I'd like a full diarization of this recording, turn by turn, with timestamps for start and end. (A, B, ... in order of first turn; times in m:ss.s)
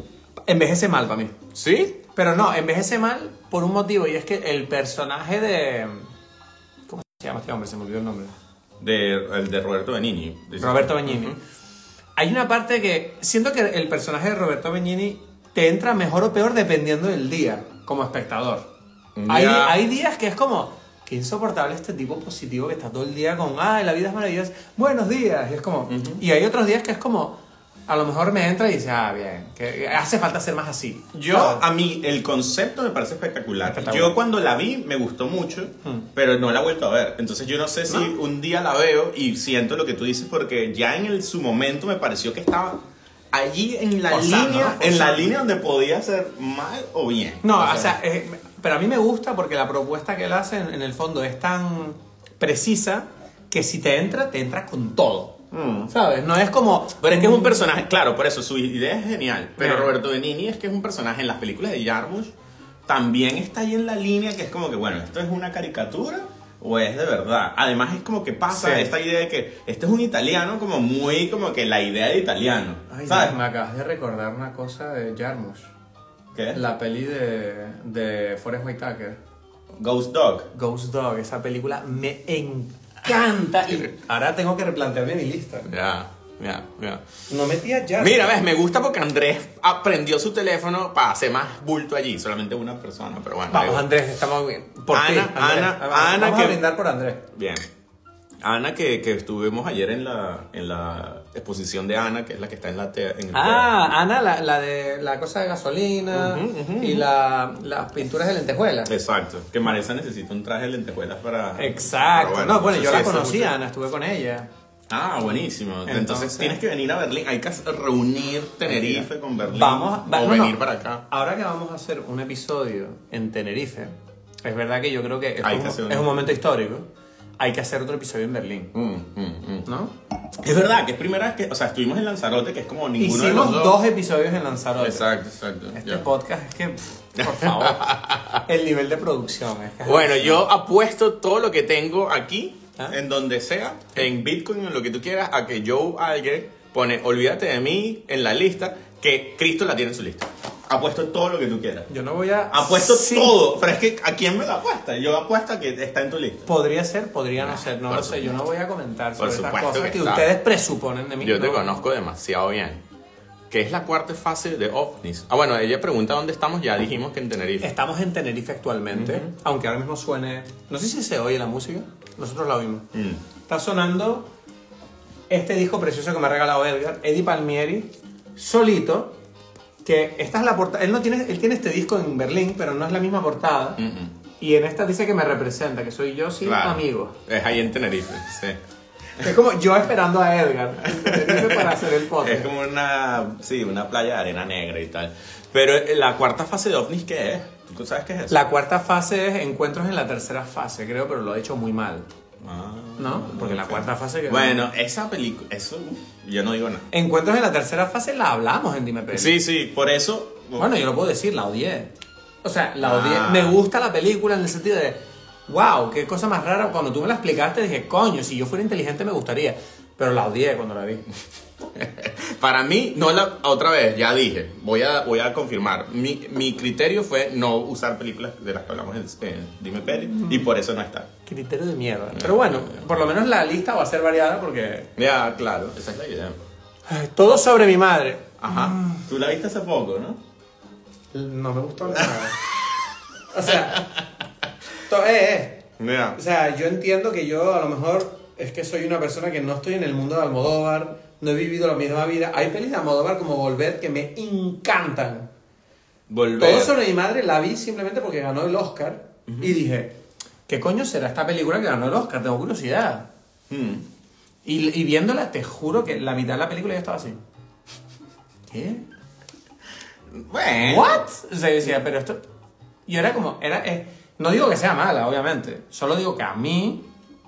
0:00.5-0:01.4 A
0:01.5-0:02.0 B
0:02.1-0:06.1 A
0:06.9-0:08.3 A
0:08.8-0:11.4 B
0:10.6-0:11.4 A
0:12.2-0:18.7 A
0:19.2-0:19.8 B
0:19.2-0:31.6 A
0:25.9-0:26.2 B
0:31.1-0:42.8 B
0:33.7-0:34.1 A
0:37.9-0:38.1 A
0:43.3-0:48.0 B
0:44.1-0:45.3 A
0:47.4-0:55.4 A
0:55.5-0:55.9 B
0:55.9-0:57.6 A
0:57.0-1:02.3 B
0:59.6-0:59.9 A
1:02.9-1:13.3 B
1:08.5-1:08.9 A
1:12.9-1:15.7 A
1:16.3-1:16.6 B
1:16.5-1:19.2 A
1:19.8-1:20.5 B
1:20.5-1:25.7 A
1:25.6-1:27.0 B
1:27.3-1:28.4 A
1:28.0-1:33.9 B
1:33.5-1:37.2 A
1:34.9-1:36.6 B
1:37.3-1:37.6 B
1:38.4-1:43.9 B
1:43.3-1:48.9 A
1:46.1-1:47.0 B
1:48.9-1:53.5 B
1:51.6-1:54.5 A
1:54.9-2:01.0 B
1:55.8-1:56.6 A
1:58.6-2:06.8 A
2:05.4-2:06.2 B
2:07.4-2:08.7 A
2:08.7-2:09.7 B
2:09.6-2:09.9 A
2:10.4-2:13.8 B
2:13.0-2:15.1 A
2:14.8-2:16.0 B
2:15.8-2:17.9 A
2:17.2-2:18.4 B
2:18.4-2:20.4 A
2:19.8-2:31.9 B
2:31.9-2:33.4 A
2:32.5-2:36.5 B
2:36.5-2:41.8 A
2:37.4-2:38.3 B
2:39.2-2:40.3 B
2:41.2-2:42.8 B
2:43.5-2:47.7 B
2:47.6-2:52.9 A
2:48.9-2:49.3 B
2:52.9-2:53.2 B
2:53.5-2:54.3 A
2:55.3-2:59.2 A
2:59.8-3:03.8 A
3:03.8-3:04.1 B
3:04.4-3:07.2 A
3:06.4-3:08.6 B
3:09.2-3:12.5 A
3:10.8-3:18.4 B
3:18.3-3:22.1 A
3:22.4-3:26.9 B
3:23.0-3:24.6 A
3:26.9-3:29.3 A
3:29.1-3:30.7 B
3:30.6-3:31.9 A
3:32.4-3:41.0 A
3:32.8-3:33.6 B
3:41.8-3:51.1 B
3:50.2-3:50.4 A
3:51.2-3:54.9 A
3:52.1-3:52.8 B
3:55.0-3:56.4 B
3:56.9-3:59.0 A
3:58.4-4:00.2 B
4:01.1-4:02.4 A
4:03.3-4:03.9 A
4:04.8-4:15.3 A
4:05.8-4:06.2 B
4:16.1-4:16.7 B
4:16.4-4:19.9 A
4:19.3-4:19.5 B
4:20.5-4:23.1 A
4:23.5-4:23.8 B
4:24.4-4:27.2 A
4:28.5-4:28.8 A
4:30.1-4:31.0 B
4:30.6-4:32.2 A
4:32.8-4:36.9 A